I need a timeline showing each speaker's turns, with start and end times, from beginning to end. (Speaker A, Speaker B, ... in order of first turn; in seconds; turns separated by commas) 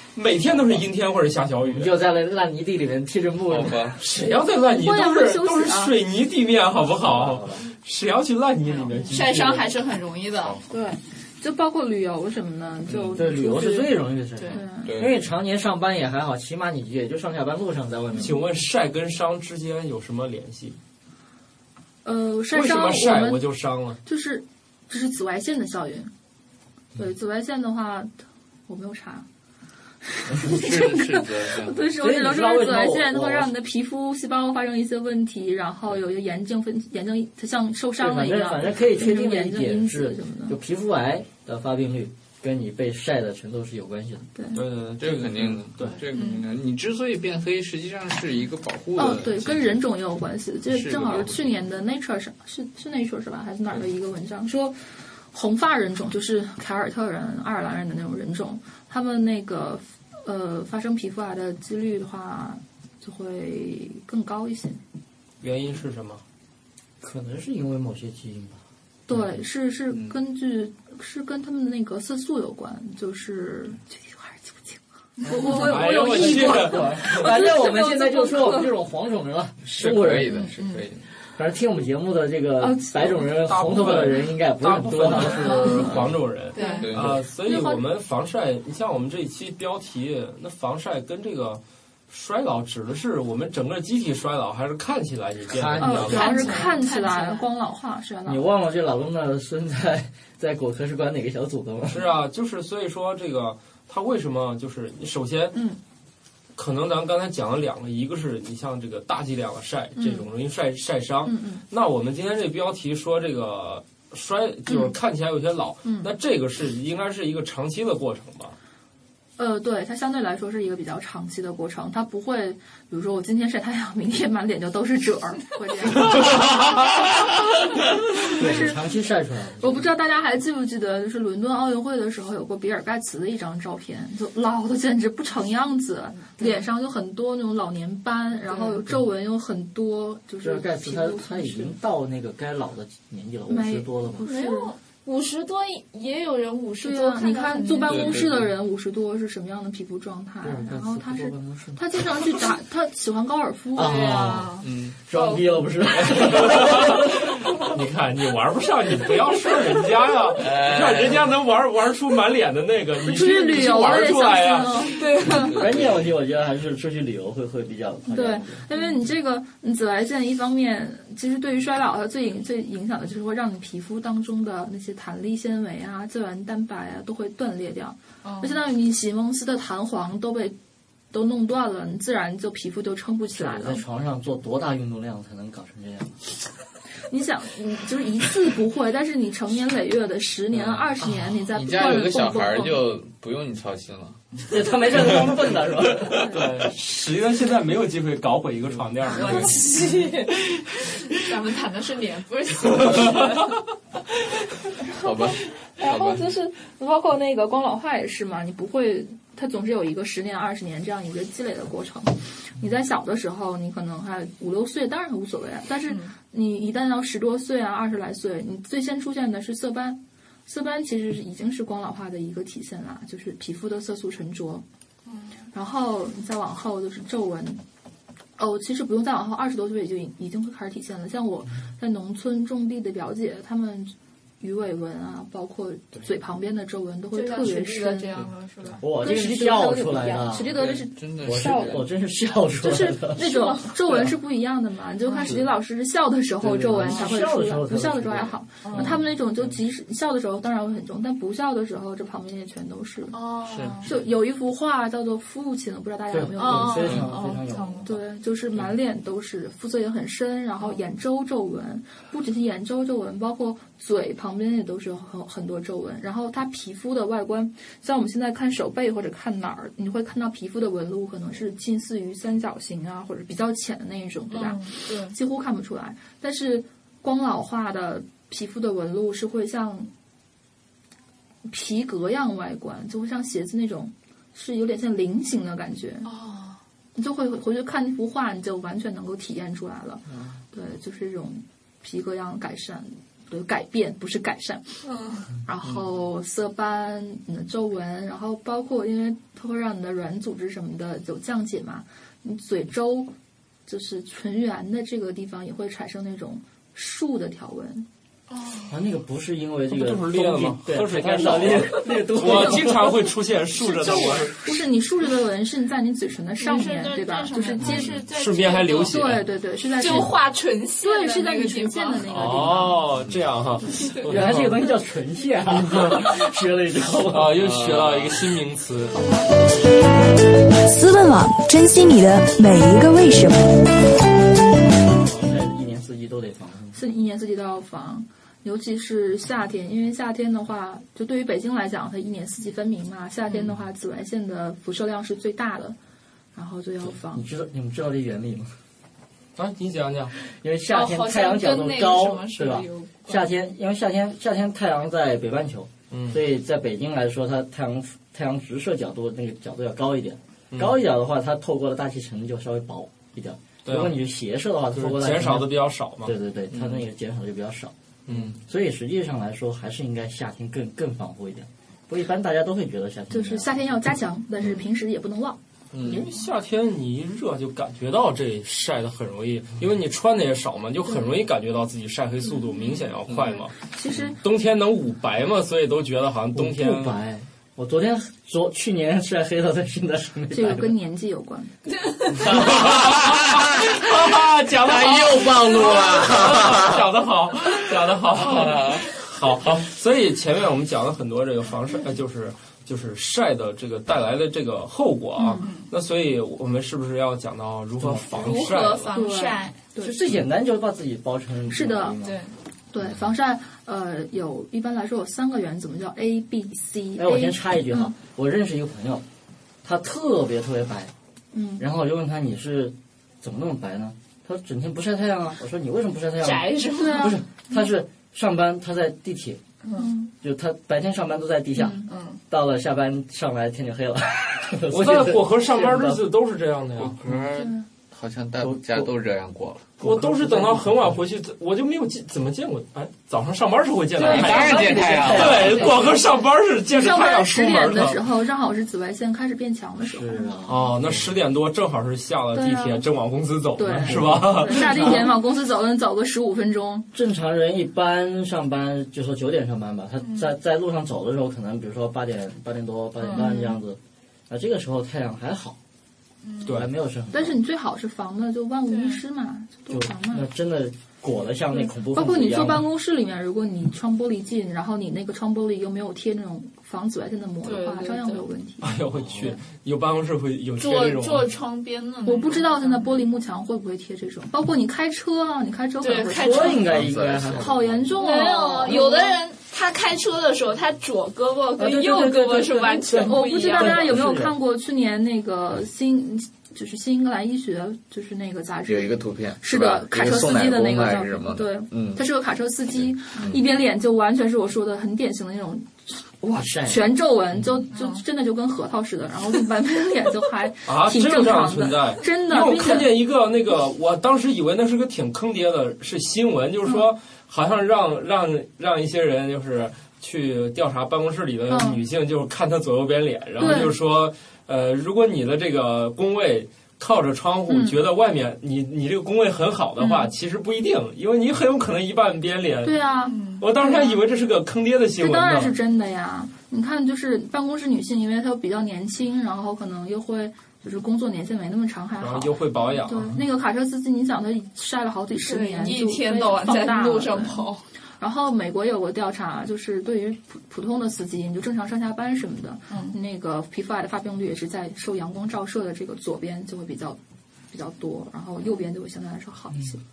Speaker A: 0.1-1.9, Speaker B: 1.6-4.0, Speaker C: 3.5-4.0, Speaker A: 4.0-9.7, Speaker D: 4.2-6.0, Speaker B: 7.0-7.6, Speaker E: 9.1-10.6, Speaker D: 10.7-14.9, Speaker C: 12.9-13.2, Speaker B: 13.2-18.4, Speaker E: 14.4-14.6, Speaker C: 14.8-15.2, Speaker A: 18.2-20.8, Speaker D: 22.0-23.4, Speaker A: 22.5-24.0, Speaker D: 24.0-26.1, Speaker D: 26.9-28.1, Speaker D: 28.7-29.3, Speaker D: 30.1-40.6, Speaker C: 30.4-31.8, Speaker B: 32.0-33.5, Speaker B: 38.0-44.3, Speaker D: 44.4-44.6, Speaker A: 44.5-46.0, Speaker C: 45.0-49.8, Speaker E: 46.1-46.5, Speaker D: 49.0-54.8, Speaker C: 50.7-51.6, Speaker D: 55.3-64.8, Speaker A: 65.4-66.2, Speaker B: 67.0-68.6, Speaker D: 69.1-78.7, Speaker B: 75.3-80.5, Speaker A: 75.5-77.3, Speaker C: 79.7-81.0, Speaker E: 80.6-80.9, Speaker B: 81.4-86.1, Speaker D: 82.6-83.3, Speaker A: 83.4-96.5, Speaker E: 85.5-85.9, Speaker E: 86.5-87.0, Speaker D: 86.6-86.8, Speaker C: 86.8-87.2, Speaker D: 87.4-87.8, Speaker B: 95.5-96.4, Speaker D: 95.8-98.4, Speaker E: 96.0-97.5, Speaker B: 98.3-102.1, Speaker A: 101.9-105.6, Speaker A: 106.6-118.5, Speaker D: 110.0-110.3, Speaker D: 111.3-111.6, Speaker D: 115.8-116.1, Speaker D: 119.4-126.9, Speaker D: 128.2-128.8, Speaker B: 128.3-129.8, Speaker D: 129.6-141.8, Speaker E: 136.3-136.6, Speaker E: 138.4-138.8, Speaker B: 140.4-144.3, Speaker D: 143.5-144.7, Speaker E: 144.2-148.3, Speaker D: 146.8-154.0, Speaker C: 147.9-148.5, Speaker B: 150.4-152.2, Speaker B: 153.8-157.7, Speaker E: 153.8-156.2, Speaker C: 154.6-155.0, Speaker A: 156.1-157.0, Speaker A: 157.6-165.0, Speaker C: 160.4-161.4, Speaker D: 163.1-165.0, Speaker E: 164.9-165.7, Speaker C: 165.4-166.1, Speaker B: 165.5-168.6, Speaker D: 168.1-180.6, Speaker E: 178.2-178.6, Speaker D: 181.1-183.8, Speaker B: 183.3-186.2, Speaker D: 187.1-192.8, Speaker C: 191.5-194.2, Speaker B: 194.5-196.4, Speaker A: 196.1-199.6, Speaker E: 199.1-200.5, Speaker C: 199.2-199.5, Speaker E: 201.0-203.6, Speaker A: 202.7-203.3, Speaker D: 205.0-224.7, Speaker C: 205.0-206.3, Speaker E: 215.9-216.1, Speaker E: 225.1-225.4, Speaker D: 225.5-227.6, Speaker D: 228.4-238.2, Speaker E: 237.1-238.9, Speaker B: 238.8-240.7, Speaker D: 239.0-241.9, Speaker C: 240.5-241.8, Speaker B: 241.2-243.2, Speaker D: 242.5-253.2, Speaker E: 243.2-244.1, Speaker E: 245.1-245.4, Speaker B: 246.4-249.1, Speaker E: 248.6-249.0, Speaker E: 253.1-253.9, Speaker C: 253.5-253.9, Speaker D: 253.8-257.0, Speaker B: 256.1-258.0, Speaker E: 256.4-257.9, Speaker D: 257.9-279.9, Speaker E: 274.3-275.2, Speaker D: 281.5-286.1, Speaker E: 286.1-286.6, Speaker D: 286.9-294.8, Speaker C: 290.1-290.4, Speaker E: 294.8-295.3, Speaker D: 295.3-303.1, Speaker D: 303.7-307.9, Speaker E: 308.3-308.8, Speaker B: 308.7-313.0, Speaker A: 309.7-314.4, Speaker D: 312.2-312.8, Speaker D: 313.6-318.0, Speaker E: 313.8-314.2, Speaker E: 316.4-319.2, Speaker C: 317.6-318.0, Speaker A: 317.7-319.2, Speaker D: 318.9-320.2, Speaker E: 319.7-322.5, Speaker D: 320.8-322.9, Speaker A: 322.1-324.7, Speaker B: 324.1-327.4, Speaker A: 325.6-326.0, Speaker A: 327.1-329.0, Speaker C: 327.3-328.3, Speaker F: 330.6-333.5, Speaker B: 335.0-336.8, Speaker D: 336.7-345.8, Speaker D: 346.4-347.3, Speaker B: 347.0-348.5, Speaker A: 349.4-350.1, Speaker B: 350.3-367.7, Speaker E: 350.7-353.3, Speaker A: 355.9-356.2, Speaker A: 360.5-360.8, Speaker A: 363.6-364.0, Speaker A: 364.8-366.1, Speaker A: 368.1-368.4, Speaker B: 368.2-373.6, Speaker D: 373.1-375.4, Speaker C: 375.7-376.1, Speaker A: 375.8-387.0, Speaker C: 383.1-383.4, Speaker D: 383.7-384.2, Speaker B: 386.3-390.7, Speaker D: 390.3-391.5, Speaker E: 391.7-392.3, Speaker C: 392.2-396.8, Speaker A: 392.2-408.9, Speaker C: 398.1-398.9, Speaker C: 399.4-399.7, Speaker D: 405.2-405.5, Speaker E: 405.4-405.7, Speaker B: 407.8-408.2, Speaker E: 408.1-409.6, Speaker D: 408.9-410.0, Speaker B: 409.8-412.2, Speaker D: 411.5-412.0, Speaker E: 412.0-412.4, Speaker D: 412.7-417.9, Speaker B: 417.0-419.0, Speaker B: 419.6-420.9, Speaker D: 421.3-421.6, Speaker B: 421.6-429.4, Speaker E: 426.2-427.2, Speaker D: 426.8-427.2, Speaker D: 429.8-430.1, Speaker B: 430.2-436.1, Speaker D: 431.6-431.9, Speaker E: 431.9-432.2, Speaker A: 434.7-437.0, Speaker C: 436.8-439.7, Speaker D: 437.4-437.6, Speaker B: 438.4-438.9, Speaker B: 439.8-441.0, Speaker A: 439.8-448.0, Speaker B: 444.0-445.9, Speaker C: 444.0-445.6, Speaker D: 444.0-445.9, Speaker D: 446.7-450.3, Speaker B: 449.8-450.9, Speaker A: 450.5-455.1, Speaker D: 452.3-452.9, Speaker D: 453.6-456.9, Speaker B: 453.7-455.1, Speaker B: 456.9-465.6, Speaker E: 460.0-460.3, Speaker E: 463.0-463.4, Speaker D: 463.1-463.6, Speaker E: 466.2-466.6, Speaker A: 466.4-466.7, Speaker B: 466.5-467.4, Speaker D: 467.1-470.3, Speaker E: 468.7-469.0, Speaker B: 469.7-472.7, Speaker D: 471.5-478.7, Speaker E: 477.4-478.3, Speaker A: 478.6-481.3, Speaker E: 480.6-483.1, Speaker D: 482.1-486.6, Speaker E: 485.8-486.8, Speaker B: 486.1-488.1, Speaker C: 486.6-487.5, Speaker D: 487.3-489.2, Speaker E: 488.0-494.1, Speaker B: 491.6-494.4, Speaker D: 492.9-512.9, Speaker C: 498.7-502.0, Speaker B: 506.3-506.8, Speaker E: 507.7-508.0, Speaker A: 510.7-532.8, Speaker D: 521.5-521.8, Speaker D: 523.4-523.7, Speaker D: 527.5-527.8, Speaker D: 529.8-530.1, Speaker D: 532.6-534.0, Speaker E: 533.0-533.5, Speaker A: 533.4-535.5, Speaker D: 535.0-547.5, Speaker A: 542.0-543.2, Speaker E: 545.2-547.6, Speaker D: 548.0-557.0, Speaker E: 552.7-553.0, Speaker D: 557.5-559.8